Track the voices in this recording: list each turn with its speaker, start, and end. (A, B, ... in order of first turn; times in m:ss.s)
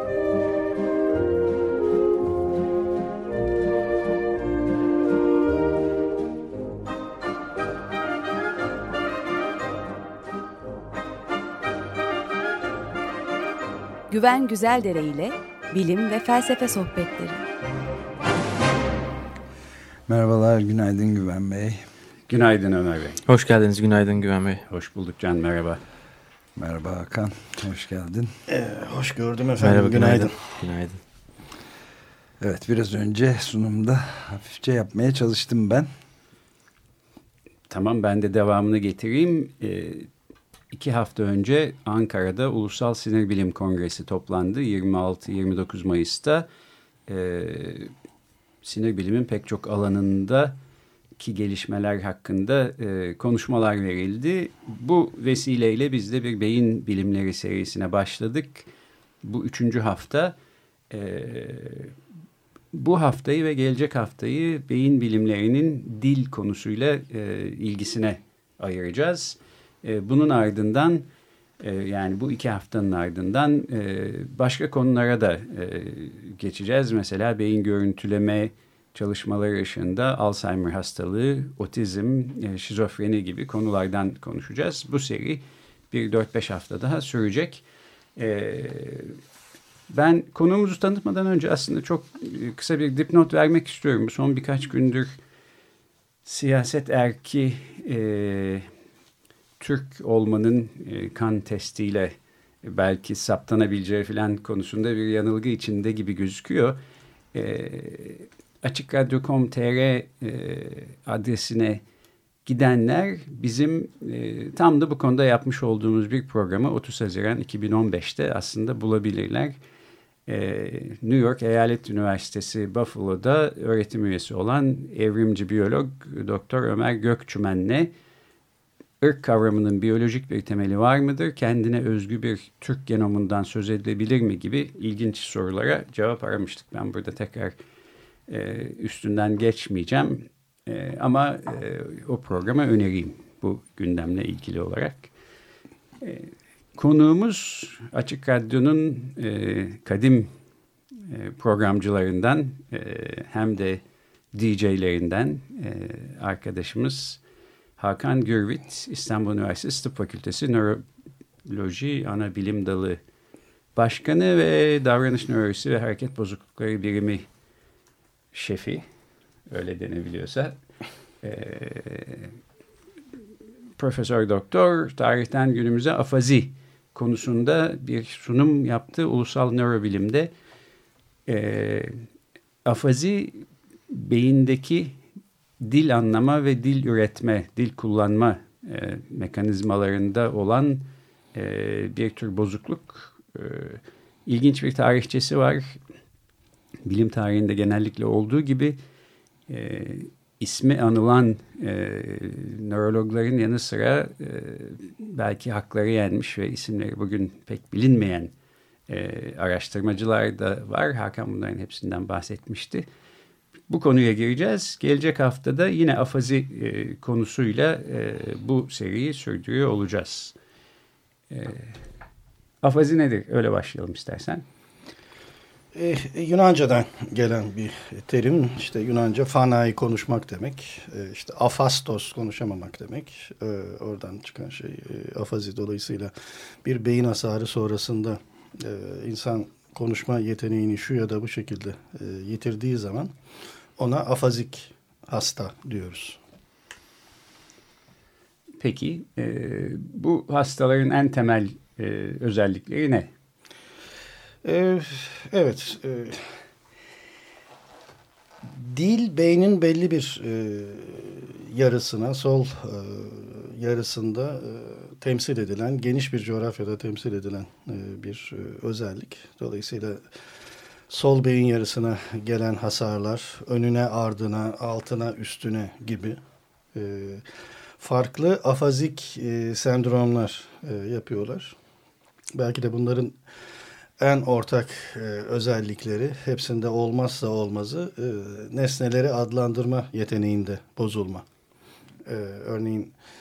0:14.1-0:17.4 A
0:20.1-0:21.8 B
0:22.3-0:23.2 C
0:23.2-0:24.6 D
0:24.7-0:25.8 C
0:26.6-0:28.3 B
0:28.5-0:30.4 E
0:29.6-0:31.0 D
0:32.4-0:35.9 B
0:37.7-0:40.1 C
0:40.7-0:46.4 C
0:47.1-0:47.9 C
0:48.6-0:50.6 C
0:51.2-0:58.7 C
0:59.2-1:00.3 C
1:00.9-1:01.9 C
1:02.7-1:11.0 C
1:11.6-1:27.6 C
1:28.2-1:29.2 C
1:29.9-1:35.2 C
1:36.2-1:38.7 C
1:39.6-1:46.8 C
1:47.3-1:51.8 C
1:52.4-1:59.6 C
2:00.3-2:07.9 C
2:09.0-2:17.6 C
2:18.3-2:25.1 C
2:26.0-2:30.3 C
2:31.1-2:33.8 C
2:34.3-2:37.2 C
2:37.8-2:40.8 C
2:41.4-2:43.0 C
2:43.8-2:47.2 C
2:48.3-2:48.8 C
2:49.5-2:50.6 C
2:51.2-2:52.3 C
2:53.8-3:00.3 C
3:01.3-3:02.0 C
3:02.6-3:05.0 C
3:05.6-3:15.8 C
3:16.8-3:18.8 C
3:19.5-3:28.3 C
3:28.9-3:32.8 C
3:33.7-3:40.3 C
3:41.3-3:41.8 C
3:42.6-3:44.4 C
3:45.7-3:56.1 E
3:56.6-4:03.1 E
4:03.8-4:06.2 E
4:08.6-4:13.1 C
4:14.4-4:16.2 E
4:18.5-4:30.0 E
4:30.9-4:36.2 E
4:36.7-4:37.2 E
4:37.8-4:41.5 E
4:42.3-4:43.2 E
4:44.0-4:51.2 E
4:52.0-4:52.9 E